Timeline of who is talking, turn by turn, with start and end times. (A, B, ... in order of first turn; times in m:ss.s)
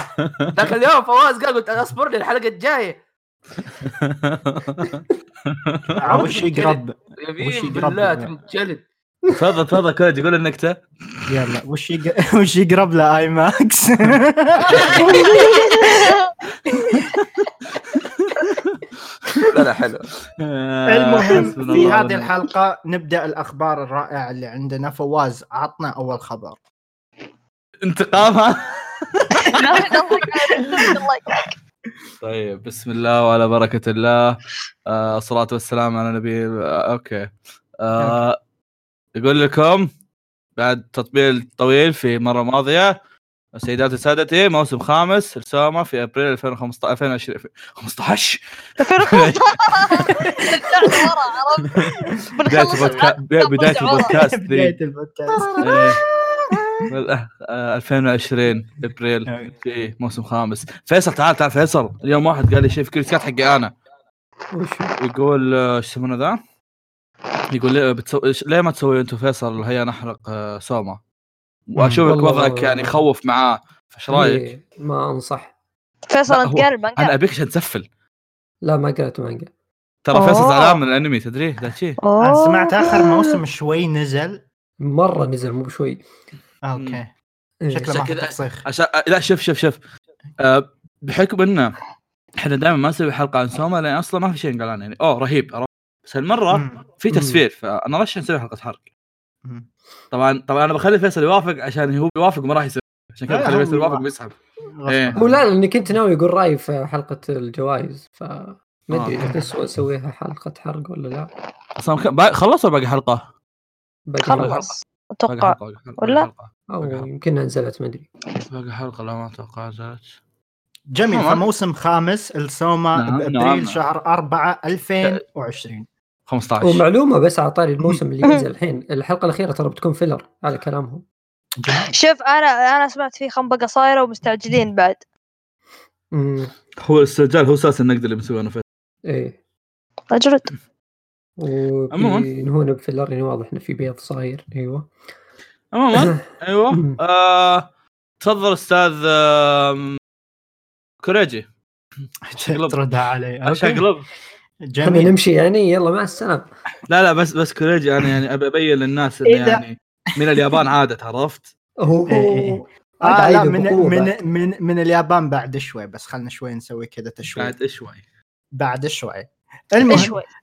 0:00.2-0:00.7 A
0:00.5-0:03.0 B
0:03.8-0:04.9 A
0:05.5-0:06.3 A
0:06.0-0:08.3 C
0:06.0-0:08.8 B
0:09.3-0:10.8 A
0:11.3-0:16.1 C
0:15.4-0:16.3 D
0:19.5-0:20.1 B
0:20.4-0:22.3 A
0:20.9-0:26.6 C
0:27.8-0:30.0 A
0:29.4-0:31.5 D
0:32.2-0:38.4 A
0:39.2-0:39.9 A
0:40.6-0:43.0 A
0:43.5-0:48.4 A
0:48.8-0:54.2 D
0:49.0-0:50.3 A
0:50.1-0:50.5 C
0:51.7-0:54.8 A
0:52.8-0:53.1 B
0:54.0-0:56.8 C
0:55.3-0:55.6 E
0:55.6-0:56.0 A
0:56.9-1:03.7 A
0:59.3-0:59.5 C
1:04.5-1:05.0 E
1:05.0-1:06.4 A
1:07.5-1:11.0 A
1:11.7-1:14.5 A
1:11.8-1:12.1 C
1:12.0-1:13.0 E
1:14.1-1:15.5 E
1:16.1-1:17.1 D
1:16.3-1:17.8 A
1:18.6-1:19.5 E
1:20.0-1:22.0 A
1:20.1-1:20.8 D
1:22.0-1:23.4 D
1:22.2-1:24.4 C
1:24.8-1:26.0 E
1:26.6-1:27.1 C
1:26.8-1:27.0 A
1:27.6-1:27.9 E
1:27.7-1:28.6 C
1:27.9-1:29.8 A
1:30.4-1:31.8 A
1:32.4-1:38.8 A
1:36.5-1:36.8 C
1:37.1-1:37.4 E
1:40.1-1:44.3 A
1:43.3-1:44.1 C
1:44.8-1:45.4 C
1:44.9-1:45.2 A
1:45.2-1:51.3 E
1:48.9-1:49.2 A
1:49.2-1:49.5 C
1:51.8-1:53.2 A
1:54.1-1:54.7 E
1:54.2-1:56.3 D
1:54.4-1:54.7 A
1:55.3-1:57.1 A
1:56.7-1:58.1 E
1:58.4-2:00.1 A
2:00.9-2:05.9 C
2:01.1-2:01.4 A
2:03.0-2:03.8 A
2:06.3-2:06.8 A
2:06.6-2:11.0 E
2:11.6-2:11.9 C
2:11.9-2:15.0 D
2:16.1-2:16.5 E
2:16.8-2:18.6 A
2:19.1-2:19.4 E
2:20.1-2:20.5 D
2:21.4-2:24.9 E
2:21.9-2:22.3 A
2:25.7-2:27.7 A
2:25.9-2:27.0 E
2:28.2-2:30.0 A
2:31.0-2:31.4 A
2:32.2-2:33.8 C
2:32.5-2:32.8 A
2:33.4-2:34.1 A
2:34.7-2:35.1 C
2:34.8-2:36.5 E
2:36.9-2:41.5 A
2:39.3-2:39.6 C
2:41.8-2:44.2 E
2:42.1-2:47.5 C
2:47.4-2:48.0 A
2:48.6-2:50.1 C
2:49.8-2:50.2 D